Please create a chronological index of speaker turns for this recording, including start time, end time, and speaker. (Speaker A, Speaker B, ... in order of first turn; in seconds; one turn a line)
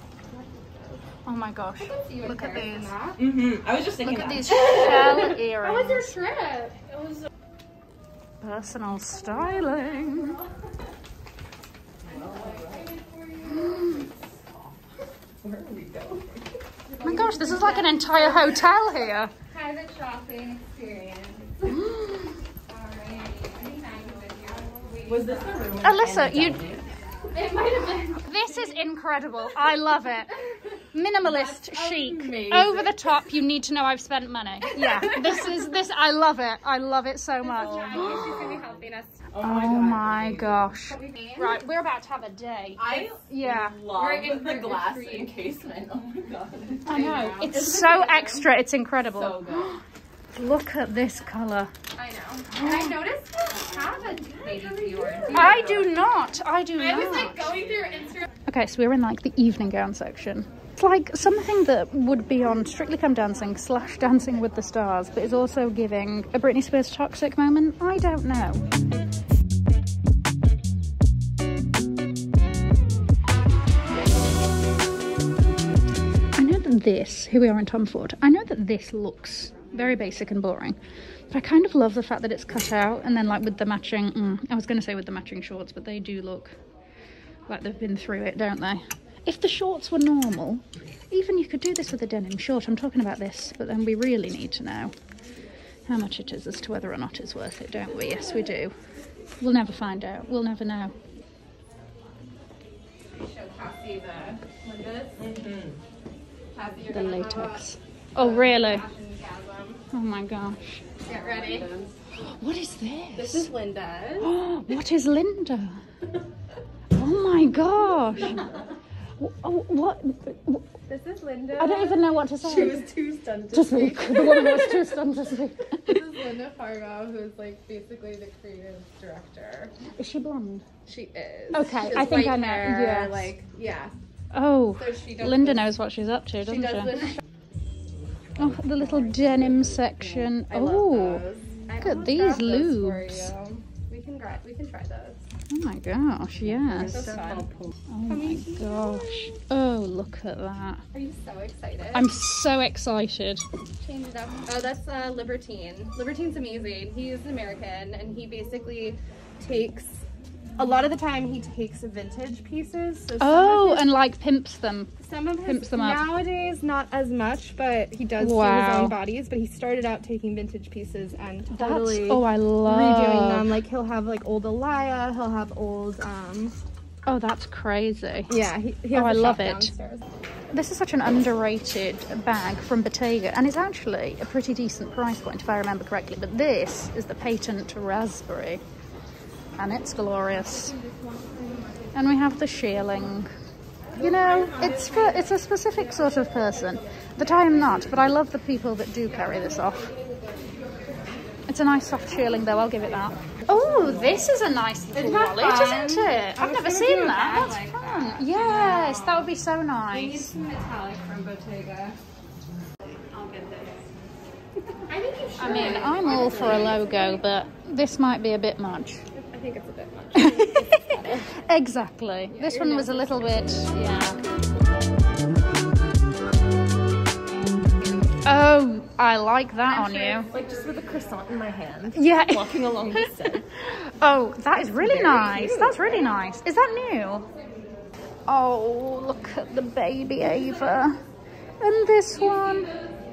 Speaker A: 0.2-1.1
Speaker B: 1.2-2.9
Speaker A: 1.8-3.2
Speaker C: 3.2-5.3
Speaker B: 4.0-6.1
Speaker A: 4.5-7.2
Speaker B: 8.4-10.4
Speaker A: 9.1-10.7
Speaker C: 12.0-12.9
Speaker A: 12.1-14.1
Speaker B: 13.5-14.0
Speaker C: 15.4-16.5
Speaker A: 16.9-18.8
Speaker B: 17.0-19.3
Speaker A: 19.5-21.9
Speaker B: 21.8-22.3
Speaker A: 22.7-25.8
Speaker C: 25.1-26.9
Speaker B: 25.8-26.6
Speaker A: 27.3-28.8
Speaker B: 28.1-30.4
Speaker B: 30.9-38.5
Speaker C: 31.5-32.9
Speaker A: 34.8-35.6
Speaker A: 37.4-39.3
Speaker C: 37.5-38.8
Speaker C: 39.3-40.6
Speaker B: 39.4-43.8
Speaker A: 40.9-41.6
Speaker A: 42.8-43.2
Speaker C: 42.8-48.2
Speaker A: 43.8-45.5
Speaker A: 46.8-48.4
Speaker B: 46.9-49.8
Speaker C: 49.1-49.8
Speaker B: 50.3-51.7
Speaker A: 52.0-55.8
Speaker B: 52.5-52.9
Speaker C: 54.6-55.9
Speaker B: 55.3-57.5
Speaker A: 56.8-58.3
Speaker C: 57.5-58.0
Speaker B: 58.5-68.6
Speaker B: 76.4-80.8
Speaker B: 81.3-86.6
Speaker B: 87.5-94.9
Speaker B: 95.9-98.7
Speaker B: 99.4-100.9
Speaker A: 103.1-105.3
Speaker C: 105.2-105.8
Speaker A: 106.5-109.8
Speaker B: 106.9-108.8
Speaker B: 109.9-110.9
Speaker A: 111.1-111.7
Speaker C: 111.1-112.0
Speaker B: 112.2-113.5
Speaker A: 113.2-114.3
Speaker B: 114.2-115.8
Speaker B: 116.9-118.4
Speaker B: 119.2-120.7
Speaker A: 120.9-122.0
Speaker B: 121.6-122.9
Speaker C: 122.4-124.7
Speaker B: 123.5-126.0
Speaker A: 125.9-129.8
Speaker B: 129.9-130.7
Speaker A: 130.9-134.0
Speaker B: 131.5-133.3
Speaker B: 134.3-137.1
Speaker A: 134.8-135.7
Speaker A: 136.5-137.1
Speaker B: 138.4-141.2
Speaker C: 138.7-139.4
Speaker A: 140.3-145.2
Speaker B: 141.8-143.3
Speaker B: 145.5-147.0
Speaker C: 146.7-147.7
Speaker A: 146.8-147.5
Speaker B: 147.9-150.8
Speaker A: 148.1-149.3
Speaker A: 150.9-152.1
Speaker B: 151.9-153.4
Speaker A: 153.8-160.0
Speaker A: 160.6-163.9
Speaker B: 163.2-164.9
Speaker A: 165.0-176.6
Speaker B: 165.4-166.1
Speaker B: 168.2-169.0
Speaker B: 171.5-173.5
Speaker B: 177.1-179.7
Speaker A: 178.3-180.0
Speaker B: 180.5-188.6
Speaker B: 189.6-190.8
Speaker A: 190.7-191.9
Speaker B: 191.9-193.3
Speaker B: 194.0-199.9
Speaker A: 194.0-195.3
Speaker A: 197.3-197.7
Speaker A: 199.1-201.1
Speaker B: 201.5-210.3
Speaker A: 203.6-204.2
Speaker A: 204.9-209.3
Speaker A: 209.9-212.0
Speaker A: 213.1-213.8
Speaker A: 214.9-217.2
Speaker B: 215.4-219.0
Speaker C: 215.7-216.6
Speaker A: 219.1-221.4
Speaker B: 220.2-224.2
Speaker A: 222.3-223.8
Speaker B: 228.2-230.3
Speaker A: 229.7-230.6
Speaker C: 230.3-233.5
Speaker B: 231.9-232.7
Speaker B: 233.7-237.3
Speaker C: 234.8-235.7
Speaker A: 235.0-236.3
Speaker B: 238.3-241.0
Speaker B: 241.6-242.7